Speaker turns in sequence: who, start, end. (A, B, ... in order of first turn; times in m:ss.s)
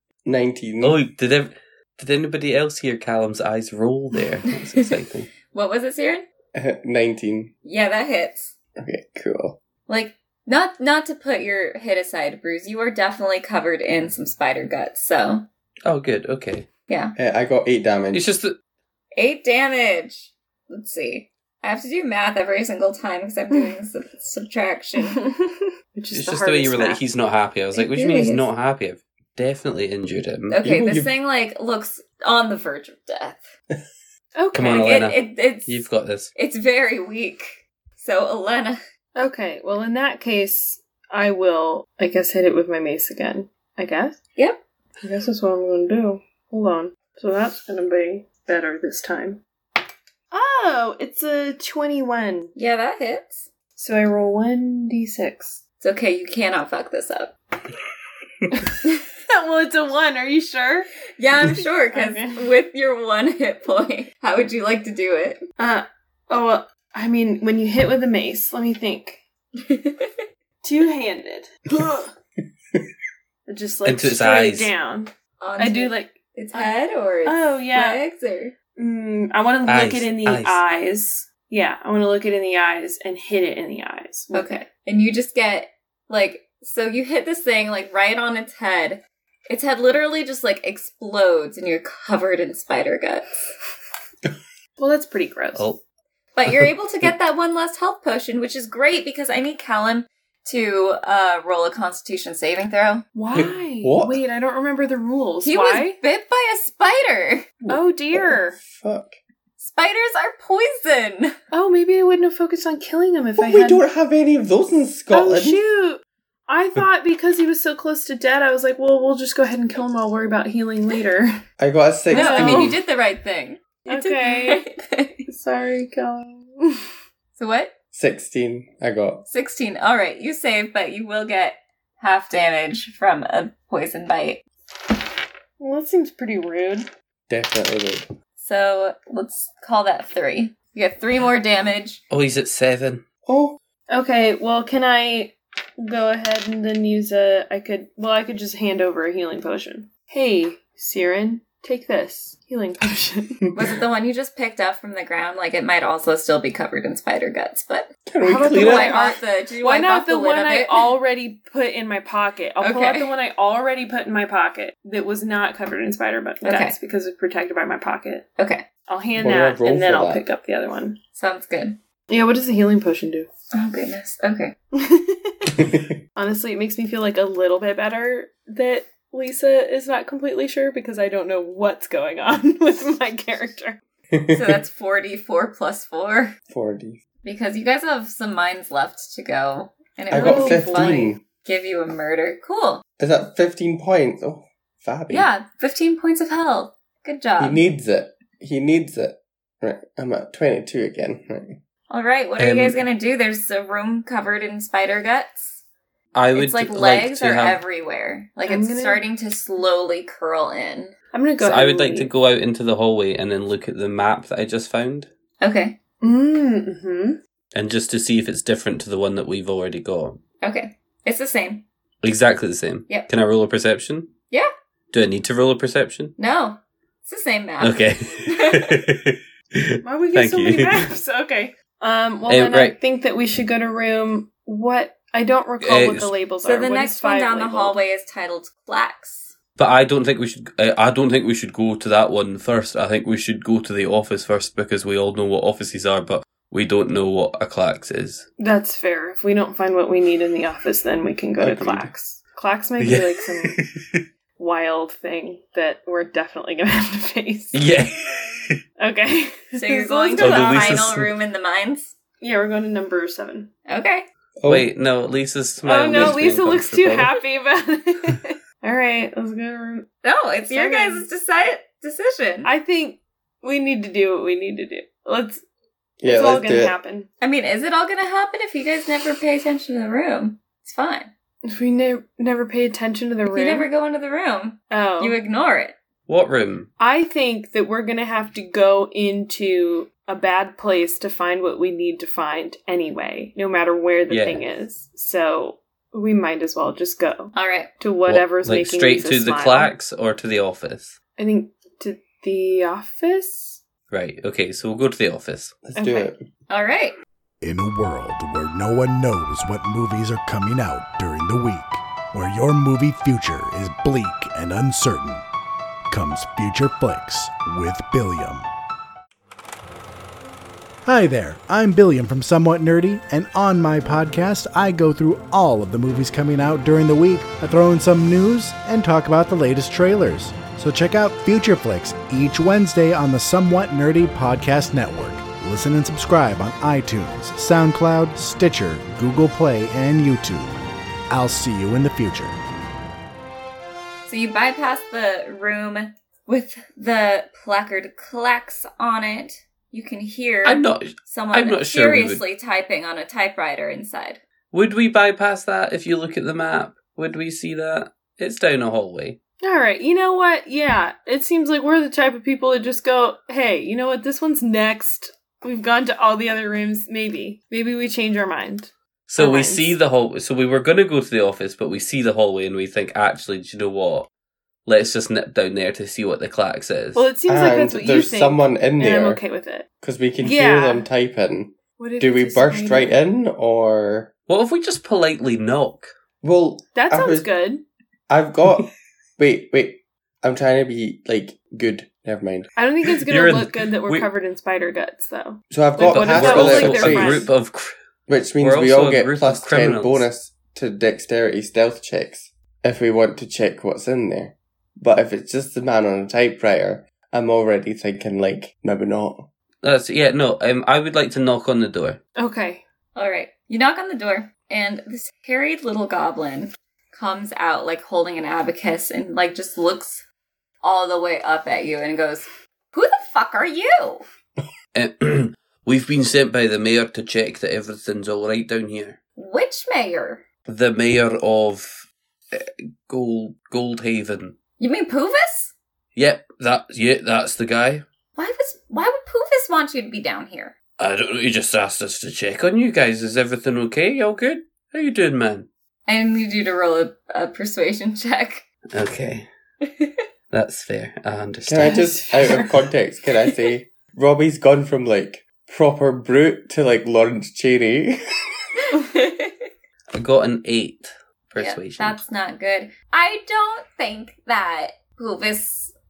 0:00.2-0:01.0 A
0:00.8-0:05.3 B
0:05.5-0:06.2 C
0:06.5-0:07.5 A
0:07.6-0:08.5 C
0:08.8-0:09.6 A
0:09.9-0:15.4 C
0:15.8-0:16.7 B
0:16.9-0:17.1 C
0:17.2-0:18.2 A
0:18.1-0:18.6 B
0:19.1-0:25.2 C
0:25.2-0:27.0 D
0:26.1-0:30.6 B
0:27.7-0:28.5 C
0:30.5-0:33.5 C
0:30.6-0:31.1 A
0:34.4-0:35.0 D
0:34.5-0:36.3 B
0:34.6-0:38.8 C
0:39.2-0:44.2 D
0:45.0-0:49.4 D
0:50.3-0:52.5 D
0:52.6-0:53.5 C
0:53.8-0:55.6 D
0:55.8-0:57.3 C
0:59.3-1:00.9 D
1:01.2-1:05.4 C
1:01.9-1:02.5 D
1:05.6-1:09.2 D
1:09.6-1:10.2 C
1:10.6-1:12.1 D
1:13.5-1:16.7 D
1:13.8-1:14.7 B
1:15.4-1:18.5 C
1:17.2-1:18.0 D
1:18.8-1:24.6 D
1:19.6-1:20.6 B
1:24.3-1:33.5 C
1:34.8-1:35.7 D
1:36.4-1:43.1 C
1:43.1-1:46.0 D
1:43.3-1:44.2 A
1:45.4-1:47.5 C
1:47.6-1:49.2 A
1:47.7-1:48.6 D
1:49.6-1:51.3 C
1:51.5-1:53.8 D
1:53.4-1:55.6 A
1:55.1-2:01.4 D
2:01.6-2:02.8 A
2:02.1-2:02.8 D
2:02.1-2:05.2 C
2:03.9-2:04.7 D
2:05.2-2:06.8 D
2:07.4-2:07.7 C
2:07.9-2:09.2 A
2:09.3-2:14.4 C
2:15.6-2:16.9 D
2:17.3-2:18.0 A
2:18.4-2:22.0 C
2:22.1-2:23.0 B
2:23.2-2:23.6 A
2:23.9-2:33.4 D
2:33.5-2:37.9 C
2:38.1-2:39.1 A
2:38.2-2:48.3 D
2:38.4-2:40.9 C
2:42.6-2:43.1 C
2:46.4-2:46.8 C
2:48.4-2:48.6 C
2:48.8-2:51.0 D
2:49.1-2:50.2 A
2:51.2-2:51.8 C
2:52.1-2:53.3 D
2:53.5-2:54.5 C
2:54.7-3:03.8 D
2:55.6-2:55.9 A
3:04.1-3:04.6 A
3:04.3-3:06.4 C
3:06.5-3:07.0 A
3:07.2-3:12.8 C
3:10.1-3:10.9 D
3:10.1-3:11.2 A
3:13.0-3:15.3 A
3:15.1-3:17.6 C
3:17.4-3:21.6 A
3:21.9-3:25.6 C
3:22.4-3:22.8 B
3:26.1-3:27.6 B
3:26.3-3:30.9 C
3:28.5-3:29.0 D
3:31.1-3:32.1 D
3:31.4-3:35.1 B
3:35.4-3:35.8 C
3:36.0-3:37.2 D
3:37.5-3:40.2 B
3:40.4-3:41.6 C
3:42.0-3:44.1 B
3:44.9-3:46.1 B
3:46.2-3:48.8 C
3:47.6-3:50.9 B
3:49.8-3:57.8 D
3:52.3-3:52.8 B
3:55.6-3:56.1 B
3:56.4-3:59.3 C
3:59.6-4:08.3 B
4:08.4-4:13.6 D
4:11.4-4:11.9 B
4:12.8-4:14.0 B
4:14.4-4:17.6 D
4:17.5-4:18.6 B
4:18.8-4:20.7 D
4:19.5-4:21.9 C
4:20.2-4:21.1 B
4:22.2-4:23.5 D
4:23.7-4:24.0 C
4:24.4-4:24.7 A
4:24.4-4:27.2 B
4:25.6-4:29.9 D
4:30.0-4:32.5 C
4:30.5-4:31.1 D
4:32.4-4:35.4 D
4:36.0-4:36.8 A
4:36.0-4:37.1 D
4:37.2-4:41.1 C
4:41.4-4:43.7 D
4:43.3-4:45.7 C
4:44.7-4:45.2 D
4:46.1-4:46.7 B
4:46.8-4:59.7 D
4:54.1-4:54.4 B
4:57.3-4:57.7 C
4:58.1-5:01.0 B
5:01.2-5:03.6 D
5:03.9-5:05.6 B
5:05.6-5:06.2 A
5:05.8-5:06.1 D
5:06.5-5:07.0 C
5:07.4-5:15.2 E
5:15.9-5:18.4 E
5:20.8-5:40.6 E
5:41.1-5:42.4 E
5:44.0-5:54.2 C
5:50.4-5:52.2 B
5:54.5-5:59.2 B
5:59.4-6:09.7 D
6:09.1-6:14.1 B
6:14.6-6:17.1 B
6:16.9-6:19.7 D
6:17.3-6:19.2 A
6:19.8-6:24.1 A
6:20.2-6:20.8 D
6:21.8-6:22.9 D
6:24.3-6:25.9 B
6:26.2-6:27.3 A
6:26.7-6:27.6 D
6:28.1-6:32.5 A
6:32.6-6:37.3 D
6:33.0-6:34.1 B
6:35.5-6:37.3 A
6:35.8-6:37.7 B
6:38.1-6:49.3 A
6:38.4-6:40.0 B
6:49.6-6:52.0 B
6:52.2-6:52.6 D
6:53.0-7:00.0 C
7:00.6-7:04.0 C
7:04.7-7:09.0 B
7:09.2-7:10.2 C
7:10.4-7:14.4 B
7:14.6-7:15.5 C
7:15.9-7:17.8 B
7:18.2-7:20.5 C
7:20.8-7:25.5 B
7:25.9-7:28.4 C
7:28.7-7:29.3 B
7:29.6-7:30.0 C
7:30.3-7:31.8 B
7:31.4-7:38.0 A
7:31.6-7:32.7 D
7:38.7-7:39.4 C
7:39.9-7:42.0 B
7:41.4-7:45.7 C